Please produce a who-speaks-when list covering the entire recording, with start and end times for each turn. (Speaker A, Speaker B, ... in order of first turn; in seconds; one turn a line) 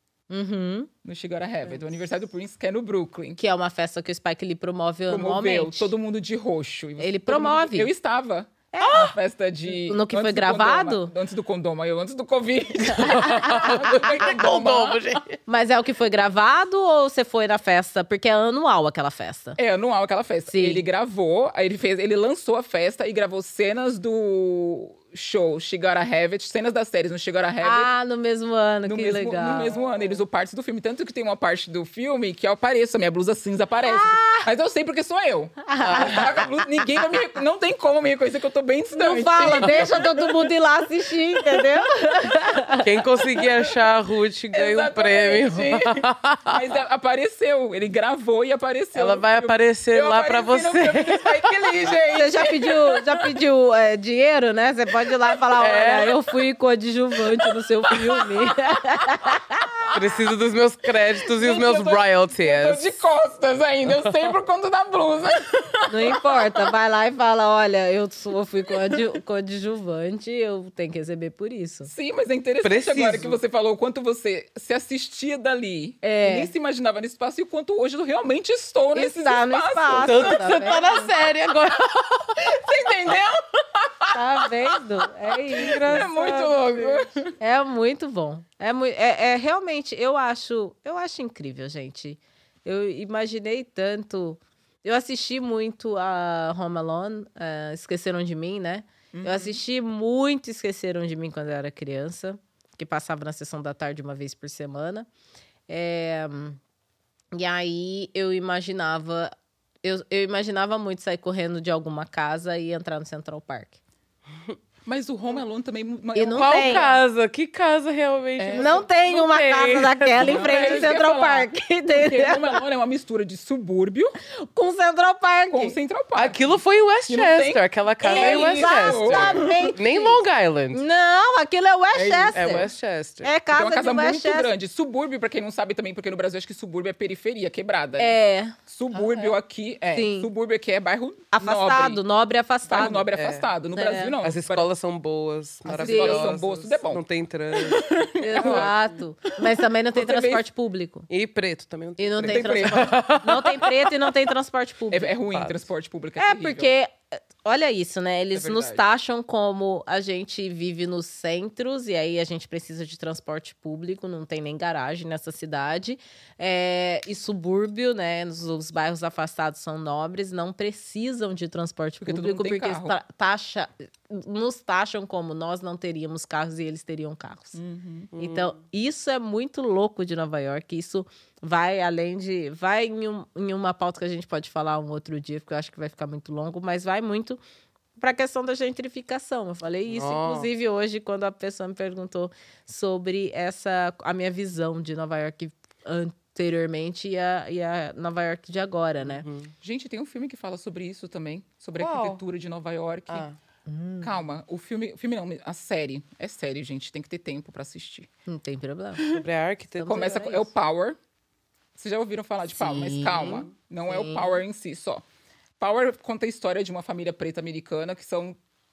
Speaker A: 0.3-0.9
Speaker B: 1.1-3.4
Speaker A: 3.4-5.9
Speaker B: 5.1-15.0
Speaker A: 7.0-7.9
Speaker A: 8.7-9.1
Speaker C: 8.8-9.1
Speaker A: 9.7-11.1
Speaker A: 12.9-14.1
Speaker C: 13.0-15.4
Speaker A: 15.5-19.6
Speaker B: 19.6-27.9
Speaker A: 20.5-20.9
Speaker A: 27.6-29.8
Speaker B: 28.9-40.5
Speaker A: 33.9-34.5
Speaker A: 35.6-36.4
Speaker C: 35.9-36.3
Speaker A: 38.9-42.9
Speaker C: 42.8-46.6
Speaker B: 44.5-53.4
Speaker C: 49.0-51.5
Speaker A: 52.1-59.9
Speaker C: 55.6-56.2
Speaker B: 57.9-58.3
Speaker C: 59.9-62.9
Speaker B: 61.3-66.6
Speaker A: 65.9-71.9
Speaker B: 68.7-69.0
Speaker B: 71.9-80.8
Speaker C: 72.6-73.4
Speaker A: 76.0-76.5
Speaker A: 79.0-81.1
Speaker C: 79.9-82.4
Speaker B: 82.4-84.8
Speaker A: 84.1-86.1
Speaker C: 85.5-87.0
Speaker B: 85.7-87.3
Speaker A: 87.4-105.1
Speaker B: 99.1-99.6
Speaker A: 105.7-106.6
Speaker A: 107.3-109.3
Speaker A: 109.8-113.8
Speaker B: 114.8-117.0
Speaker A: 116.2-116.8
Speaker C: 116.3-120.9
Speaker B: 118.4-118.7
Speaker A: 118.5-122.6
Speaker B: 120.2-124.2
Speaker A: 124.3-125.8
Speaker B: 125.5-129.7
Speaker C: 126.2-130.8
Speaker A: 128.1-132.7
Speaker B: 131.9-132.6
Speaker C: 132.3-133.3
Speaker A: 133.2-134.5
Speaker B: 133.5-142.0
Speaker A: 138.0-139.3
Speaker A: 139.9-140.3
Speaker A: 141.3-143.1
Speaker B: 142.7-144.7
Speaker C: 142.8-143.5
Speaker A: 143.7-144.2
Speaker C: 144.2-148.7
Speaker A: 145.7-146.4
Speaker B: 145.7-147.0
Speaker B: 147.6-148.7
Speaker A: 148.2-151.1
Speaker B: 149.9-150.4
Speaker C: 151.1-154.1
Speaker A: 152.0-155.1
Speaker B: 152.3-153.3
Speaker B: 154.9-156.7
Speaker C: 155.3-155.7
Speaker A: 156.2-177.6
Speaker B: 158.3-158.8
Speaker B: 172.0-172.9
Speaker B: 177.5-178.1
Speaker C: 178.1-178.6
Speaker A: 178.2-187.4
Speaker A: 188.0-199.2
Speaker C: 189.9-190.5
Speaker C: 199.0-199.5
Speaker B: 199.6-203.3
Speaker C: 201.8-202.2
Speaker C: 203.1-203.4
Speaker A: 203.7-204.1
Speaker B: 204.0-208.1
Speaker A: 208.3-209.0
Speaker C: 209.1-210.2
Speaker A: 209.8-210.5
Speaker B: 209.9-211.0
Speaker B: 211.8-215.0
Speaker A: 212.5-214.3
Speaker B: 215.6-218.4